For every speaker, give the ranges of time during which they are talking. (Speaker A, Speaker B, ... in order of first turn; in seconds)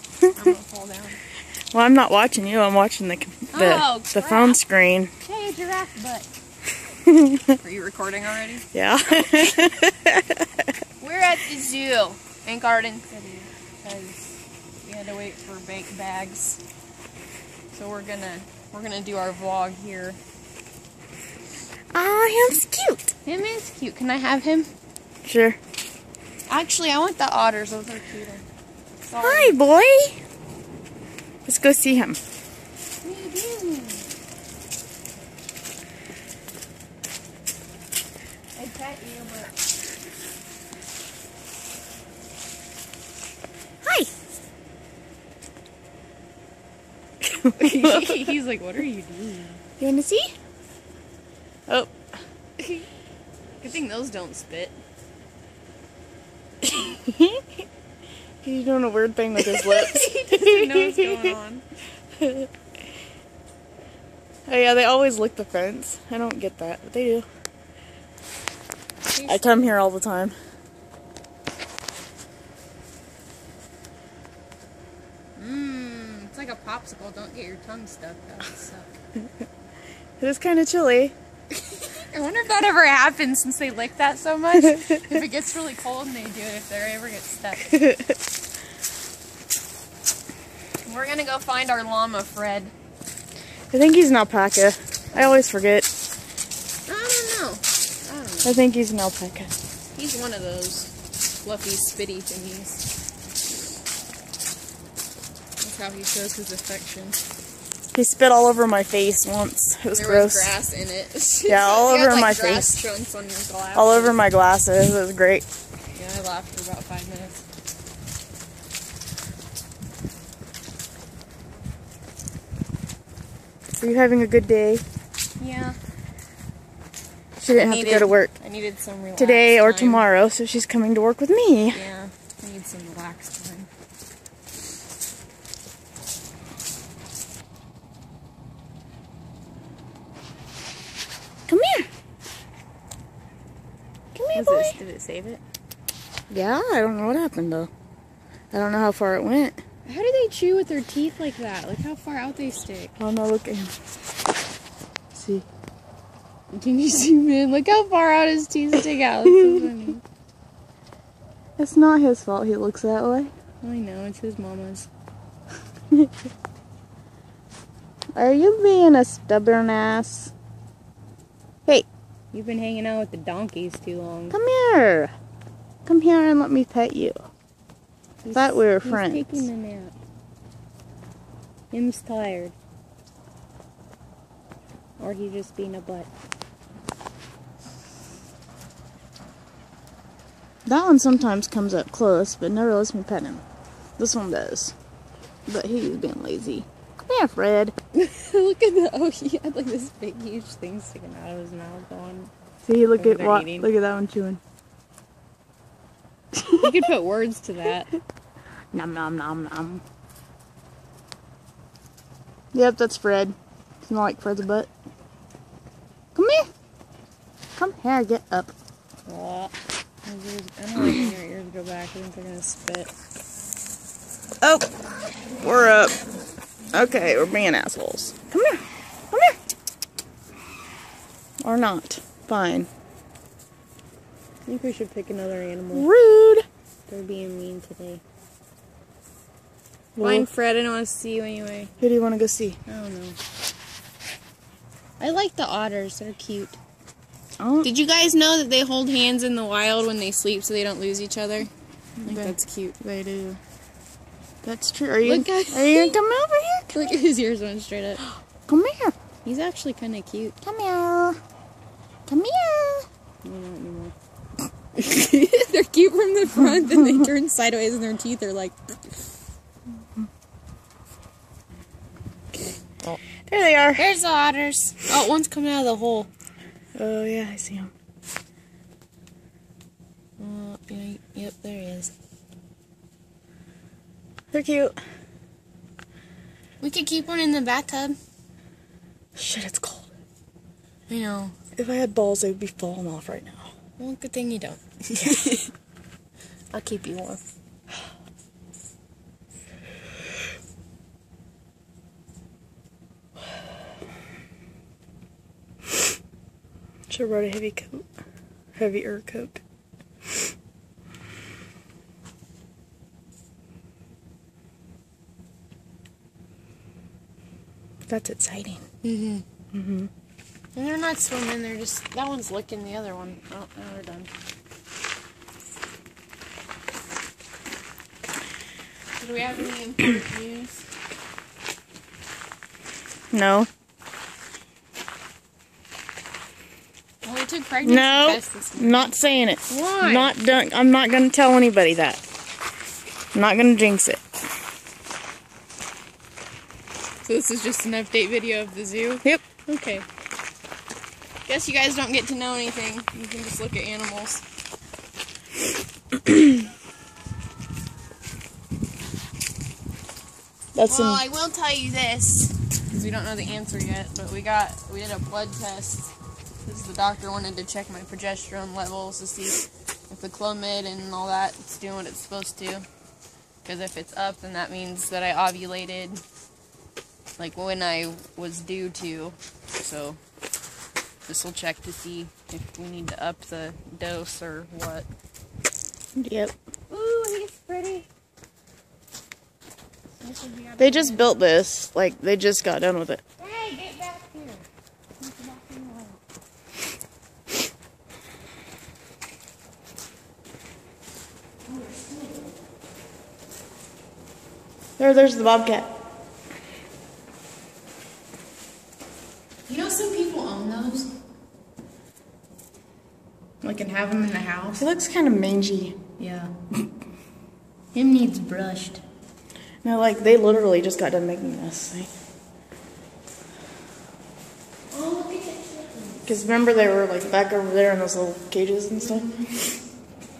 Speaker A: 0.3-1.2, 3.5-4.6, 5.2-6.3, 7.5-8.7, 11.0-16.6, 17.7-20.2, 23.2-24.7, 26.5-28.4, 29.1-29.6, 33.0-34.1, 38.6-39.5, 47.5-49.6, 53.6-54.8, 59.4-61.6, 69.1-69.7, 75.4-78.9, 81.6-87.7, 90.8-92.7, 96.9-98.6, 100.0-102.8, 105.6-107.2, 109.9-114.2, 116.0-117.4, 125.4-125.8, 127.5-130.1, 131.7-133.7, 144.2-144.8, 149.9-153.0, 156.5-160.0, 163.6-164.9, 172.3-174.4, 178.2-179.9, 181.7-182.5, 185.0-186.1, 197.9-202.3, 203.0-203.7, 206.5-207.9, 219.1-219.5, 220.1-222.9, 234.5-235.9, 236.9-238.0, 240.0-241.7, 242.7-243.2, 245.0-246.6, 247.6-251.5, 252.1-252.8, 255.0-256.0, 256.7-258.1, 259.2-260.4, 263.2-263.9, 264.8-268.8, 273.8-276.1, 280.2-281.9, 286.6-288.0, 290.9-291.4, 293.8-295.5, 296.5-297.2, 318.8-319.2, 320.6-324.1, 329.0-330.6, 337.0-338.9, 339.5-340.2, 347.0-349.9, 351.3-354.2, 360.6-365.9, 366.4-372.7, 373.4-376.0, 377.2-380.0, 381.1-384.9, 386.7-387.9, 390.0-391.2, 393.2-394.4, 395.0-396.0, 401.5-402.3, 409.5-410.9, 413.4-414.7, 416.0-416.3, 417.7-418.8, 424.7-426.1, 428.8-429.3
Speaker B: 1.7-5.1, 7.0-7.6, 8.7-10.7, 21.9-23.1, 25.2-25.6, 29.2-30.2, 31.4-32.2, 47.2-48.3, 49.8-50.3, 51.7-51.9, 56.6-57.5, 58.4-61.4, 62.2-62.5, 64.5-67.3, 69.3-70.3, 80.2-81.2, 87.7-88.2, 93.7-95.9, 98.5-99.5, 107.9-110.5, 111.5-112.8, 113.8-115.5, 123.8-124.8, 127.4-128.3, 129.2-131.8, 141.5-141.9, 144.2-145.4, 146.3-147.7, 148.5-149.6, 153.0-153.7, 155.1-155.5, 159.2-159.8, 161.6-163.3, 168.2-170.3, 174.3-175.1, 175.8-177.2, 178.3-179.5, 190.7-193.4, 194.0-194.8, 195.5-197.7, 202.7-204.4, 206.4-206.8, 208.7-209.8, 212.5-214.7, 216.2-216.5, 217.6-218.6, 220.8-221.1, 224.4-224.7, 225.4-226.0, 226.7-229.4, 231.4-232.7, 235.7-236.5, 240.0-240.3, 241.8-242.6, 247.4-247.7, 252.0-253.4, 254.4-256.8, 258.5-258.9, 260.4-261.2, 262.1-262.9, 272.9-273.9, 276.8-277.7, 284.3-284.8, 289.1-289.9, 291.6-293.5, 295.0-295.3, 306.9-307.9, 308.6-309.4, 317.9-318.6, 319.5-319.9, 333.1-333.5, 337.6-342.0, 343.1-344.0, 360.6-361.0, 386.0-386.3, 390.6-393.0, 404.8-405.7, 414.6-415.8, 419.6-421.9, 426.1-429.1